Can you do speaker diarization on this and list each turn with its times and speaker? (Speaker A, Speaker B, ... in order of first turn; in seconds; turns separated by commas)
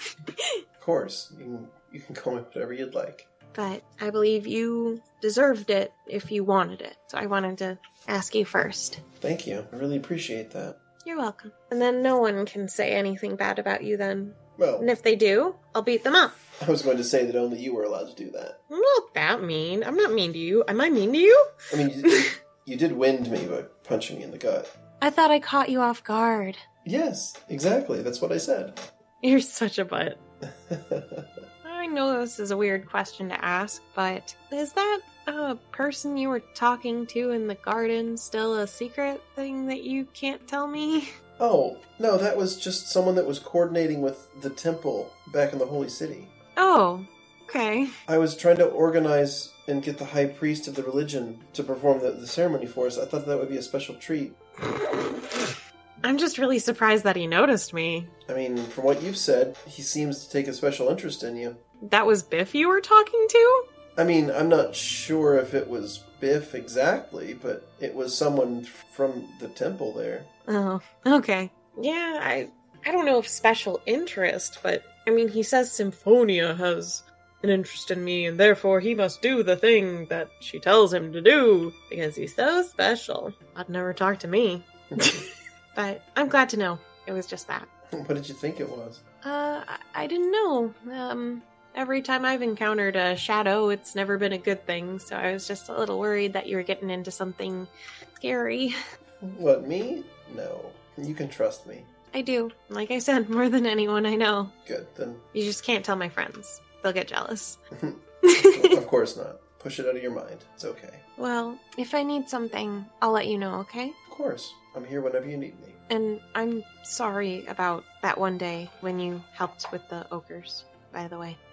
Speaker A: 0.8-3.3, Speaker B: 3.5-9.0, Speaker A: 9.2-10.8, Speaker B: 11.0-16.4, Speaker A: 14.6-14.9, Speaker A: 16.6-18.6, Speaker B: 18.7-21.5, Speaker A: 21.7-24.7, Speaker B: 25.0-26.6, Speaker A: 26.9-28.8, Speaker B: 29.2-30.2, Speaker A: 30.5-31.3, Speaker B: 31.6-41.1, Speaker A: 41.4-46.3, Speaker B: 46.6-47.9, Speaker A: 48.1-54.4, Speaker B: 54.7-55.5, Speaker B: 56.0-58.1, Speaker A: 58.3-61.6, Speaker B: 61.8-63.7, Speaker A: 64.0-70.3, Speaker B: 70.5-87.7, Speaker A: 84.9-85.2, Speaker A: 87.9-89.0, Speaker B: 89.2-98.8, Speaker A: 99.2-101.9, Speaker B: 102.1-104.5, Speaker A: 104.7-105.2, Speaker B: 105.3-107.6, Speaker A: 107.8-111.0, Speaker B: 108.3-108.8, Speaker B: 111.2-114.0, Speaker A: 114.1-115.8, Speaker B: 115.9-121.4